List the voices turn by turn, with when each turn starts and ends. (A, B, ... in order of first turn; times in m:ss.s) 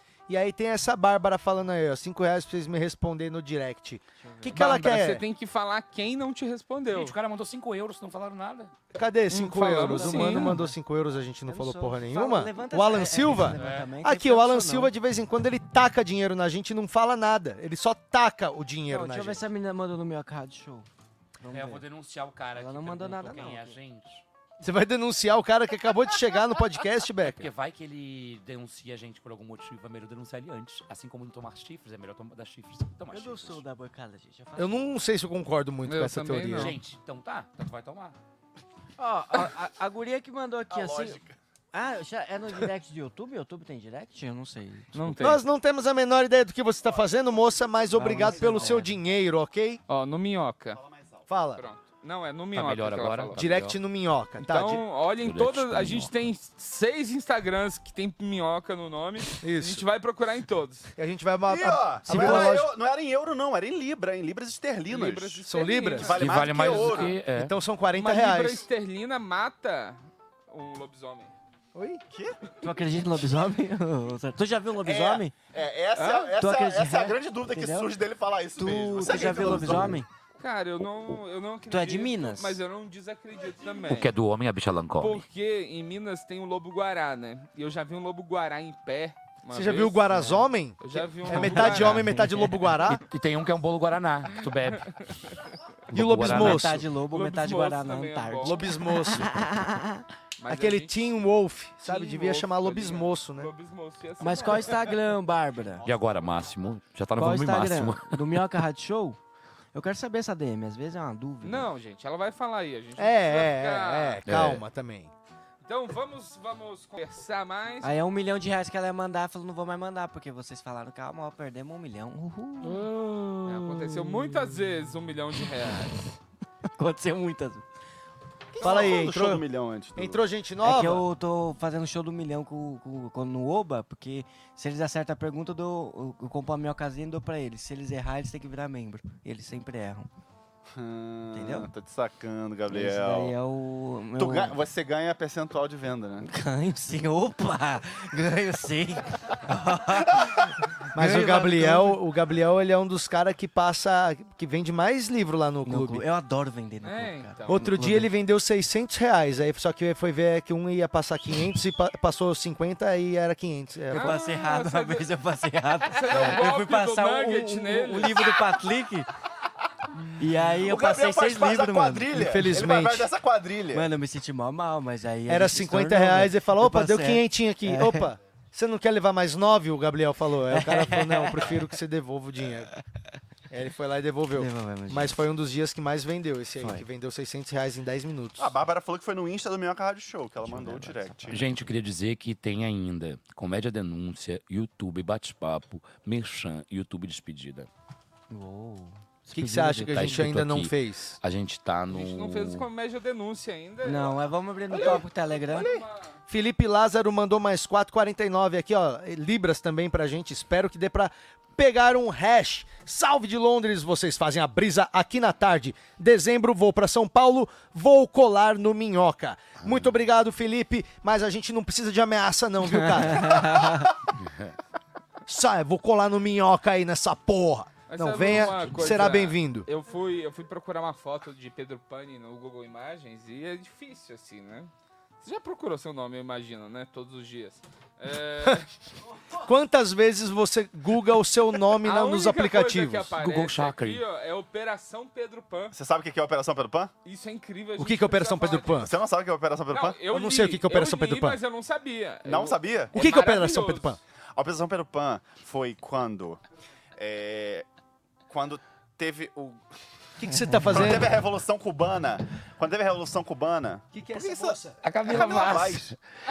0:00.3-0:05.2 A
0:04.2-0:04.7 B
0:04.6-0:07.2 C
0:06.9-0:08.7 D
0:08.9-0:19.4 A
0:09.3-0:10.6 C
0:09.7-0:10.7 B
0:11.5-0:14.9 B
0:13.6-0:14.0 D
0:18.9-0:20.9 B
0:21.4-0:21.9 B
0:21.5-0:24.2 D
0:22.6-0:23.8 B
0:24.6-0:27.5 A
0:27.2-0:33.6 D
0:33.1-0:35.0 B
0:34.6-0:36.8 A
0:35.9-0:36.7 C
0:36.5-0:38.2 D
0:39.0-0:41.2 B
0:40.7-0:41.4 E
0:41.7-0:45.3 B
0:44.9-0:45.4 C
0:45.2-0:49.8 A
0:46.8-0:48.8 E
0:47.9-0:48.9 B
0:49.9-0:50.8 C
0:50.7-0:51.3 E
0:51.3-0:51.6 A
0:51.6-0:53.4 C
0:52.5-0:53.8 D
0:53.4-0:54.8 A
0:54.4-1:00.9 C
0:55.2-0:56.1 D
0:59.4-0:59.8 A
1:01.0-1:02.7 A
1:01.5-1:05.4 E
1:02.1-1:02.6 B
1:04.9-1:07.1 C
1:05.4-1:06.2 A
1:06.0-1:07.2 E
1:06.1-1:07.6 D
1:07.3-1:08.6 A
1:07.9-1:11.3 C
1:11.7-1:12.0 A
1:12.1-1:12.4 E
1:12.6-1:15.4 B
1:14.8-1:20.0 E
1:16.0-1:17.9 B
1:18.6-1:20.1 B
1:20.4-1:24.1 C
1:21.7-1:22.6 B
1:23.9-1:25.2 D
1:25.0-1:30.3 C
1:29.5-1:33.0 A
1:30.1-1:30.4 B
1:30.8-1:32.0 C
1:31.3-1:32.7 B
1:31.7-1:32.0 D
1:33.0-1:34.8 D
1:35.9-1:36.8 D
1:35.9-1:36.8 A
1:36.3-1:40.0 B
1:37.0-1:38.6 C
1:38.4-1:39.5 A
1:40.4-1:41.1 C
1:40.5-1:43.5 A
1:41.8-1:45.0 C
1:44.2-1:45.8 B
1:45.8-1:48.2 D
1:47.2-1:49.2 B
1:49.7-1:51.7 B
1:51.4-1:54.2 C
1:53.0-1:55.1 A
1:54.2-1:54.6 D
1:55.6-1:57.9 C
1:57.8-2:02.9 B
2:02.7-2:04.4 D
2:03.4-2:06.1 C
2:06.7-2:07.6 B
2:08.5-2:10.2 E
2:08.6-2:09.4 A
2:10.0-2:11.0 A
2:10.6-2:20.1 B
2:20.7-2:23.4 E
2:21.3-2:21.7 B
2:22.7-2:24.6 B
2:24.2-2:26.3 E
2:26.2-2:32.0 B
2:31.0-2:36.0 A
2:35.6-2:38.1 B
2:36.8-2:37.7 C
2:37.5-2:44.1 A
2:43.9-2:49.1 B
2:43.9-2:45.1 C
2:45.9-2:48.3 C
2:50.2-2:52.4 B
2:50.6-2:53.9 E
2:52.2-2:53.1 A
2:53.7-2:58.1 B
2:55.3-3:02.7 A
3:00.5-3:01.7 B
3:03.5-3:08.5 A
3:04.3-3:05.2 B
3:06.6-3:06.9 B
3:08.4-3:11.7 E
3:10.4-3:11.3 B
3:11.3-3:17.7 D
3:18.3-3:20.2 B
3:19.3-3:21.2 A
3:19.9-3:22.6 D
3:21.9-3:26.2 C
3:23.8-3:25.7 B
3:26.3-3:43.4 A
3:39.6-3:39.9 D
3:42.7-3:43.9 B
3:45.3-3:49.7 A
3:47.9-3:54.7 C
3:48.3-3:49.2 D
3:55.2-3:58.7 C
3:59.4-4:03.2 A
4:01.8-4:05.8 C
4:03.2-4:04.0 D
4:05.7-4:06.9 E
4:07.0-4:08.8 C
4:07.8-4:08.9 A
4:08.8-4:10.1 E
4:09.7-4:14.0 C
4:10.0-4:11.4 A
4:12.2-4:13.0 E
4:12.9-4:14.0 A
4:14.4-4:16.4 E
4:17.0-4:17.7 E
4:18.3-4:19.6 E
4:20.2-4:21.1 A
4:20.5-4:20.8 B
4:20.7-4:25.9 E
4:23.9-4:24.8 A
4:24.8-4:26.0 D